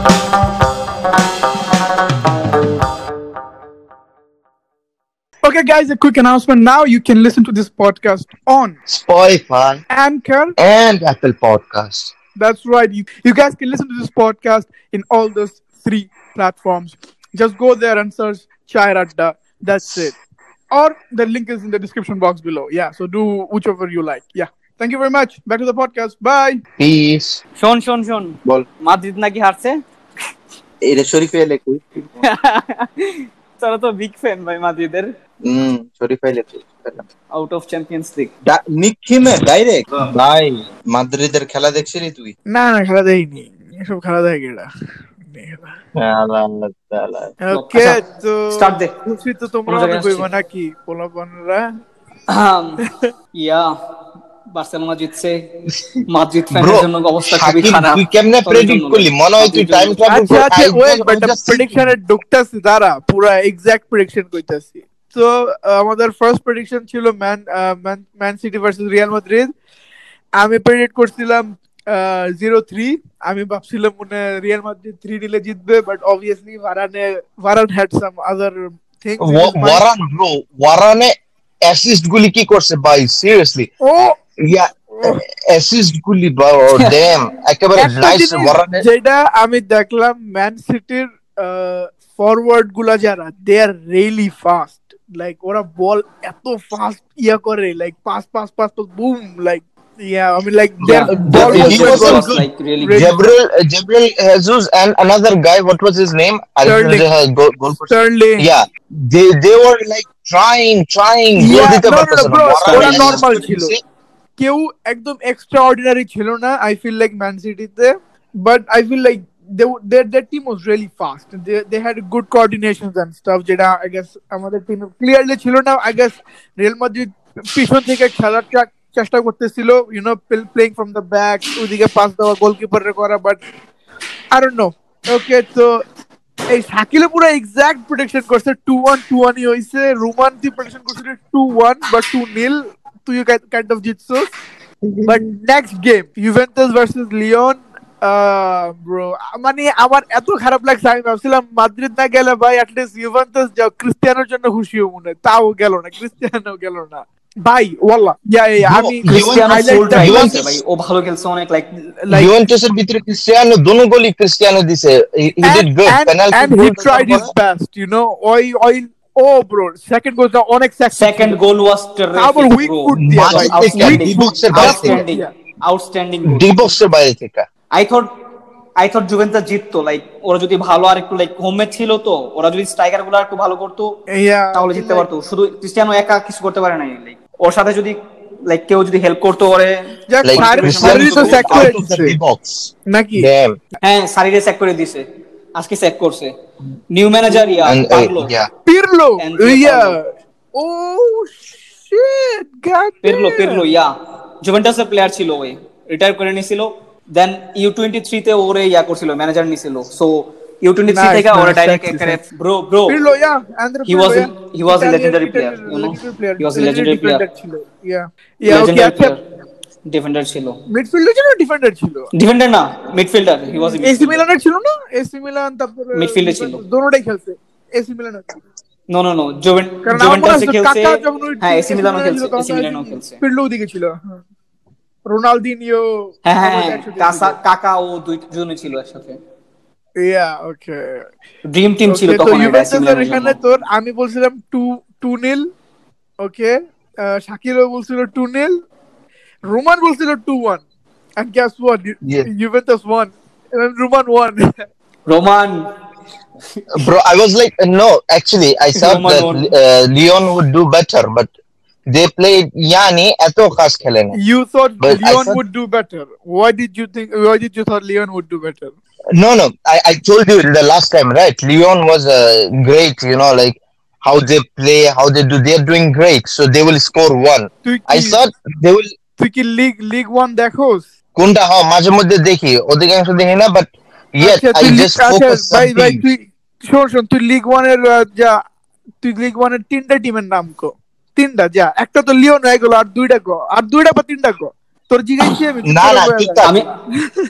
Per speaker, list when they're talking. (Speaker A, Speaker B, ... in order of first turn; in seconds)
Speaker A: 5.4-8.8, 9.9-10.6, 12.3-20.1, 20.7-26.6, 42.5-44.7, 45.2-45.8, 47.4-51.7, 52.8-53.1, 60.1-69.5, 70.4-79.8, 83.8-84.2, 84.9-85.2, 87.8-102.3, 102.8-103.3, 106.6-107.0, 107.9-108.5, 111.3-113.7, 114.4-133.4, 134.3-135.8, 136.5-144.3, 145.1-160.5, 162.0-162.3, 165.4-171.4, 172.1-175.3, 184.1-185.1, 190.1-192.2, 192.9-193.3, 198.7-203.6, 210.9-212.2, 212.9-219.1, 220.7-222.1, 223.5-228.3, 229.8-234.2, 235.1-237.4, 240.0-241.1, 241.9-245.5, 246.2-248.6, 249.4-250.6, 251.2-254.7, 264.1-268.7, 277.6-278.2, 279.2-280.9, 284.2-288.4, 289.0-297.2
Speaker B: 8.9-9.8, 10.6-12.1, 26.8-27.4, 30.8-32.2, 35.4-37.1, 38.4-42.3, 46.0-47.3, 56.5-61.9, 79.2-83.7, 84.4-88.8, 100.8-113.8, 158.6-160.6, 162.1-167.3, 172.9-175.1, 176.2-177.5, 190.2-193.6, 197.7-198.5, 252.0-252.3, 256.7-261.3, 261.9-264.2, 264.8-265.4, 269.1-278.9, 281.1-286.0, 295.6-296.6
Speaker C: 27.6-29.8, 32.2-35.1, 37.3-38.3, 47.5-48.9, 49.7-50.3, 52.3-52.8, 53.3-53.7, 54.5-55.5, 56.1-60.0, 86.8-87.0, 100.8-103.1, 112.6-113.2, 159.0-161.7, 170.9-176.7, 177.7-178.1, 178.8-184.0, 184.5-191.7, 193.8-196.3, 196.9-198.3, 199.2-200.0, 203.0-203.9, 204.4-213.0, 213.9-217.2, 218.5-219.2, 219.9-220.6, 222.1-224.2, 225.9-226.6, 228.9-233.2, 236.2-239.2, 241.4-243.3, 255.1-255.7, 258.8-259.5, 296.4-296.8